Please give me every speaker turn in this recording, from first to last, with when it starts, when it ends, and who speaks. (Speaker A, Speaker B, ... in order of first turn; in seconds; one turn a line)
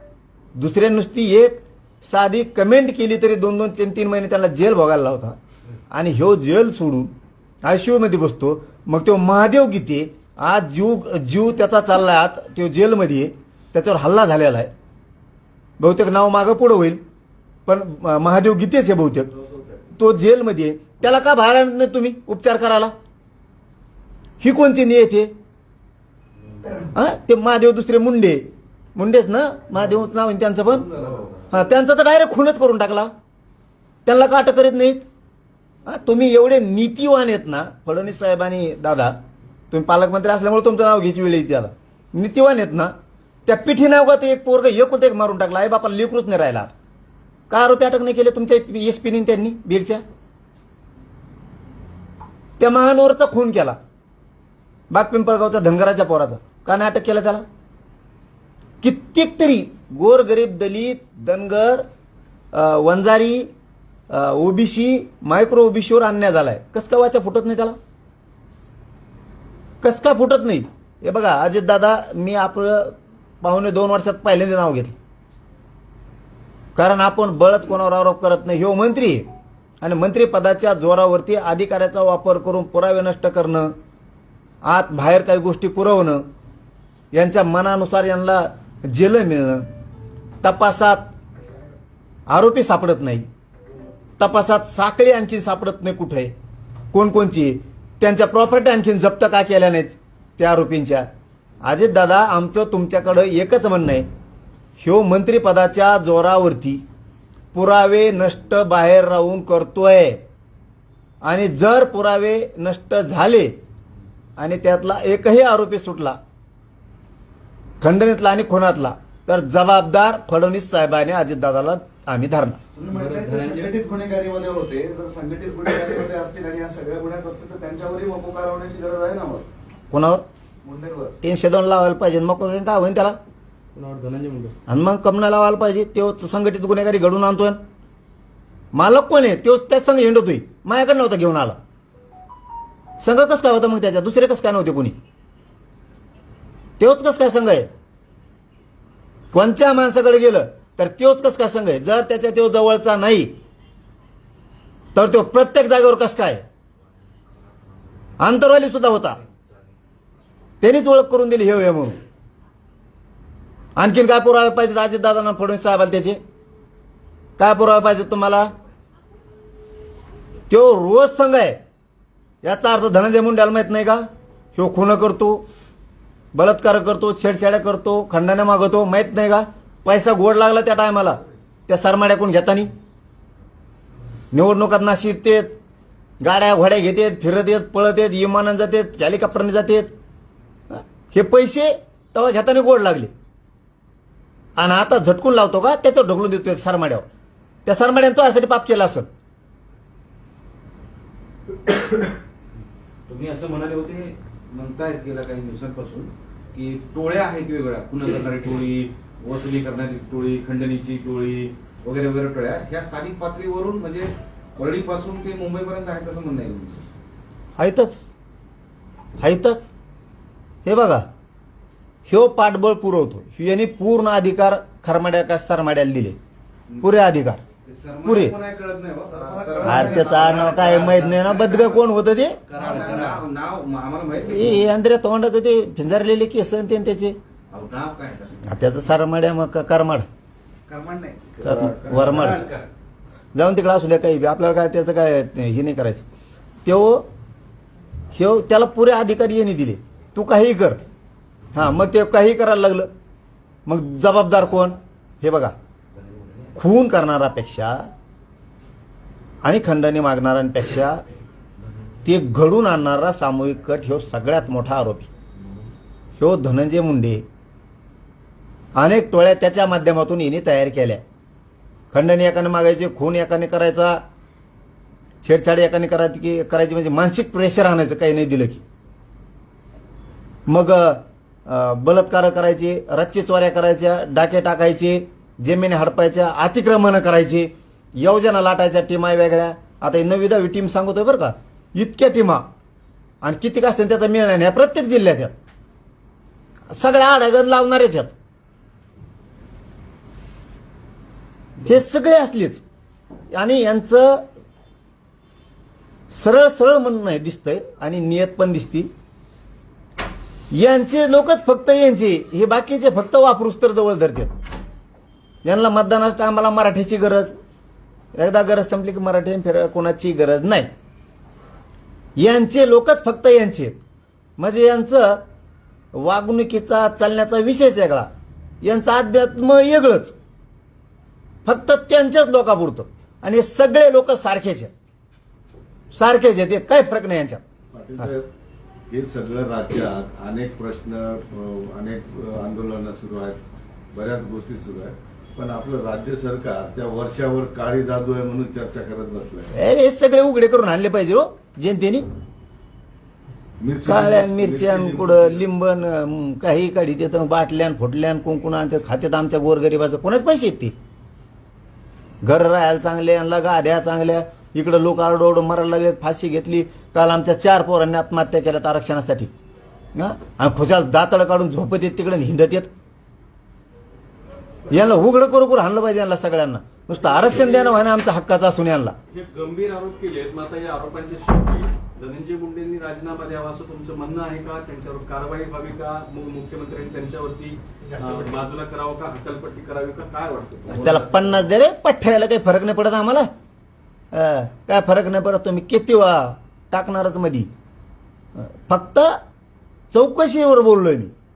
Speaker A: 0.5-5.4
Speaker A: 5.9-7.1
Speaker A: 7.6-14.7
Speaker A: 15.8-17.0
Speaker A: 17.6-19.3
Speaker A: 19.9-22.9
Speaker A: 24.4-25.3
Speaker A: 26.9-30.9
Speaker B: 30.9-31.5
Speaker A: 31.5-33.1
Speaker A: 34.0-35.0
Speaker A: 35.9-39.1
Speaker A: 39.7-42.9
Speaker A: 43.5-46.7
Speaker A: 47.5-50.0
Speaker A: 52.6-53.8
Speaker A: 54.9-57.4
Speaker A: 58.8-61.9
Speaker A: 62.5-63.5
Speaker A: 64.1-67.8
Speaker A: 69.8-75.0
Speaker A: 76.8-79.2
Speaker A: 79.8-83.7
Speaker A: 84.6-86.2
Speaker A: 87.1-89.7
Speaker A: 90.4-91.1
Speaker A: 92.3-93.3
Speaker A: 94.2-96.3
Speaker A: 96.9-101.1
Speaker A: 101.6-104.1
Speaker A: 104.8-106.8
Speaker A: 107.5-110.2
Speaker A: 111.2-113.5
Speaker A: 114.4-116.2
Speaker A: 117.8-122.6
Speaker B: 122.8-129.5
Speaker C: 122.9-123.8
Speaker A: 129.9-130.2
Speaker B: 130.6-131.2
Speaker A: 131.2-133.2
Speaker C: 133.7-134.6
Speaker A: 134.7-137.6
Speaker A: 138.7-141.6
Speaker A: 143.0-145.0
Speaker A: 146.8-147.7
Speaker A: 149.3-153.3
Speaker A: 154.9-156.4
Speaker A: 158.2-159.2
Speaker A: 160.6-162.0
Speaker A: 163.8-166.2
Speaker A: 167.4-168.5
Speaker A: 170.5-171.6
Speaker A: 172.4-175.4
Speaker A: 176.3-182.7
Speaker A: 184.3-185.5
Speaker A: 186.2-189.9
Speaker A: 190.7-193.1
Speaker A: 194.6-197.1
Speaker A: 197.7-199.1
Speaker C: 203.1-216.8
Speaker A: 217.6-218.0
Speaker A: 219.2-219.7
Speaker A: 220.6-221.1
Speaker A: 222.1-226.2
Speaker A: 226.8-227.4
Speaker C: 227.6-231.8
Speaker A: 228.0-228.3
Speaker B: 229.1-230.7
Speaker A: 229.6-232.4
Speaker C: 232.5-234.7
Speaker B: 232.5-233.2
Speaker A: 234.2-237.2
Speaker C: 237.5-238.5
Speaker A: 238.4-240.1
Speaker B: 240.7-242.7
Speaker A: 241.4-242.4
Speaker C: 242.0-242.3
Speaker A: 243.3-246.1
Speaker A: 246.6-247.1
Speaker A: 248.1-250.8
Speaker A: 251.5-252.9
Speaker A: 253.7-255.5
Speaker A: 256.6-257.9
Speaker A: 259.4-261.0
Speaker A: 262.0-265.1
Speaker A: 266.2-267.2
Speaker A: 268.8-271.0
Speaker A: 271.9-274.0
Speaker A: 275.2-278.6
Speaker A: 280.5-292.5
Speaker A: 293.2-295.4
Speaker A: 296.7-298.1
Speaker A: 301.6-302.6
Speaker A: 303.3-304.2
Speaker A: 306.1-308.9
Speaker A: 310.5-314.3
Speaker A: 315.4-317.3
Speaker A: 318.1-320.7
Speaker A: 322.2-323.8
Speaker A: 324.4-325.2
Speaker A: 325.9-328.1
Speaker A: 328.6-330.1
Speaker A: 331.4-334.7
Speaker A: 335.9-337.4
Speaker D: 337.7-338.3
Speaker D: 338.9-349.5
Speaker A: 349.5-352.1
Speaker D: 353.6-355.4
Speaker A: 353.9-360.7
Speaker A: 362.2-369.3
Speaker A: 369.9-372.7
Speaker A: 374.7-378.9
Speaker E: 379.1-391.0
Speaker B: 387.9-388.4
Speaker A: 390.7-393.3
Speaker C: 390.8-391.2
Speaker A: 394.1-397.5
Speaker A: 398.4-399.2
Speaker A: 399.9-401.1